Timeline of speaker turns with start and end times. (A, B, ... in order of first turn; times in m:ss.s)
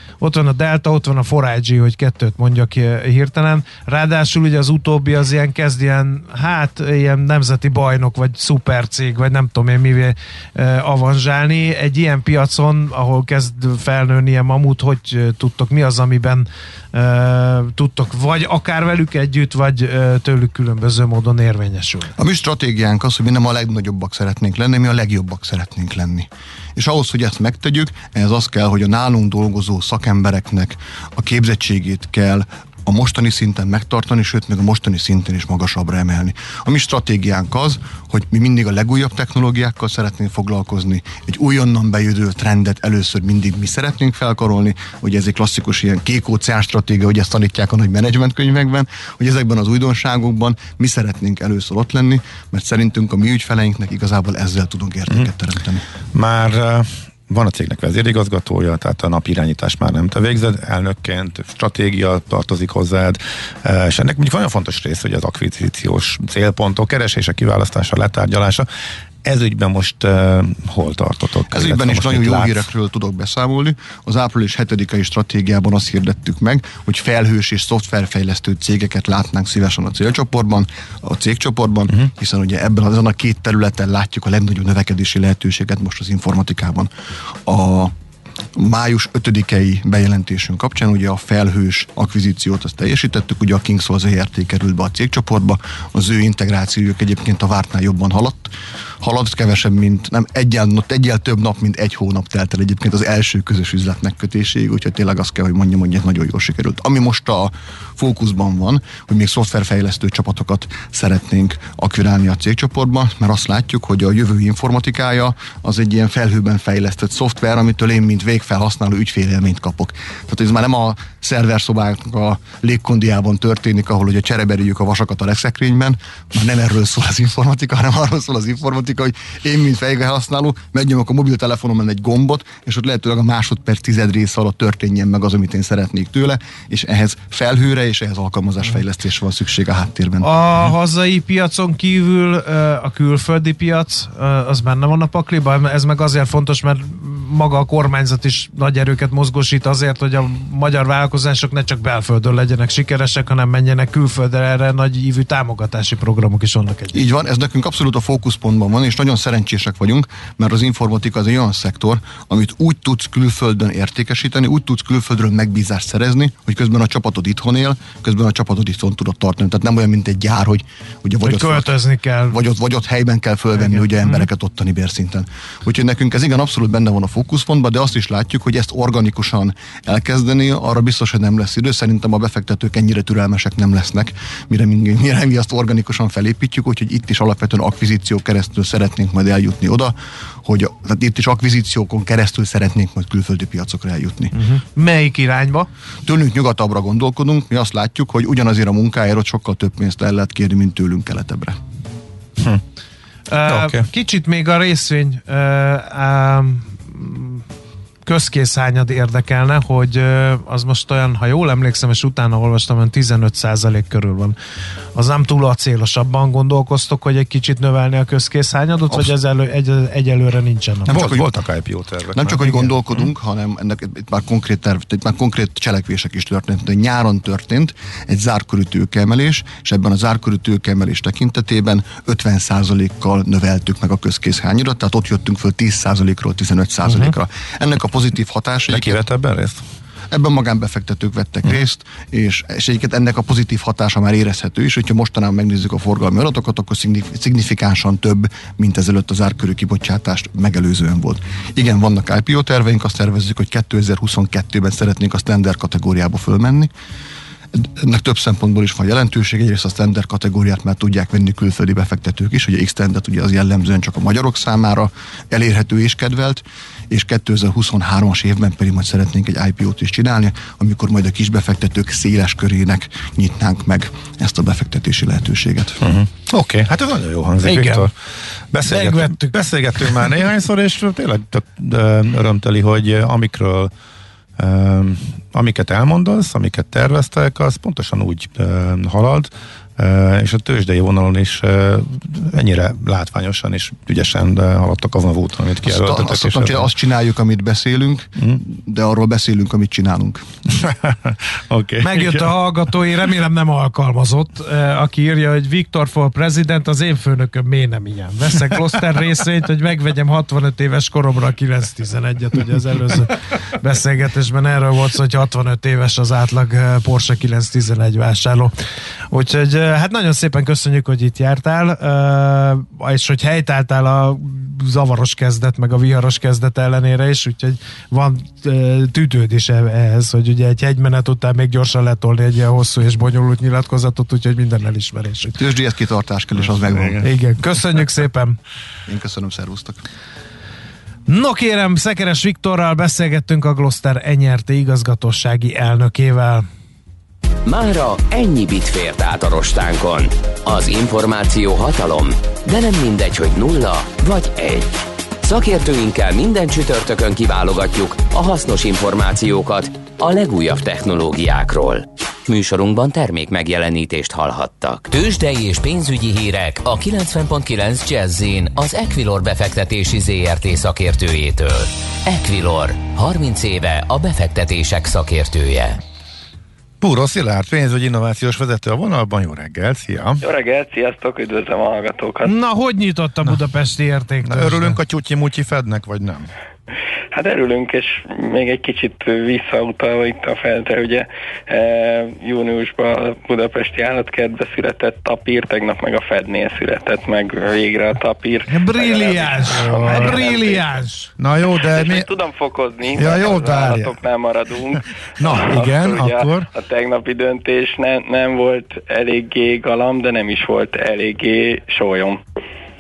0:00.2-0:22.2 A
0:22.2-0:55.8 B
0:56.1-1:08.7 C
1:09.2-1:12.6 C
1:11.5-1:26.9 B
1:27.5-1:27.9 B
1:28.6-2:20.3 B
2:20.2-2:37.0 A
2:36.9-2:51.7 B
2:51.2-2:52.4 A
2:52.3-3:14.3 B
2:53.6-2:54.3 A
3:14.3-3:15.7 A
3:16.0-3:21.6 B
3:23.3-3:27.4 A
3:23.5-3:23.9 C
3:28.0-3:34.4 A
3:35.0-3:41.0 A
3:40.9-3:41.3 B
3:40.9-3:43.1 C
3:42.1-3:59.0 B
3:42.4-3:42.7 A
3:58.7-3:59.6 C
4:00.1-4:16.7 B
4:17.5-4:35.8 B
4:35.8-4:38.0 C
4:37.4-4:37.9 A
4:38.5-4:43.7 C
4:38.6-4:39.4 A
4:44.4-4:56.7 C
4:55.6-5:00.2 B
5:00.5-5:02.3 C
5:01.8-5:18.5 A
5:19.1-5:35.4 A
5:35.4-5:37.0 B
5:36.4-5:37.0 C
5:37.0-5:38.4 A
5:38.9-5:39.8 B
5:41.1-5:46.4 A
5:47.5-6:15.8 D
6:16.8-6:20.2 C
6:20.2-6:22.4 E
6:22.2-6:24.8 A
6:24.2-6:26.3 C
6:27.1-6:40.7 E
6:38.5-6:41.1 A
6:39.6-6:40.2 C
6:41.2-6:42.1 C
6:41.6-6:52.2 E
6:42.9-6:44.0 C
6:45.2-6:46.5 C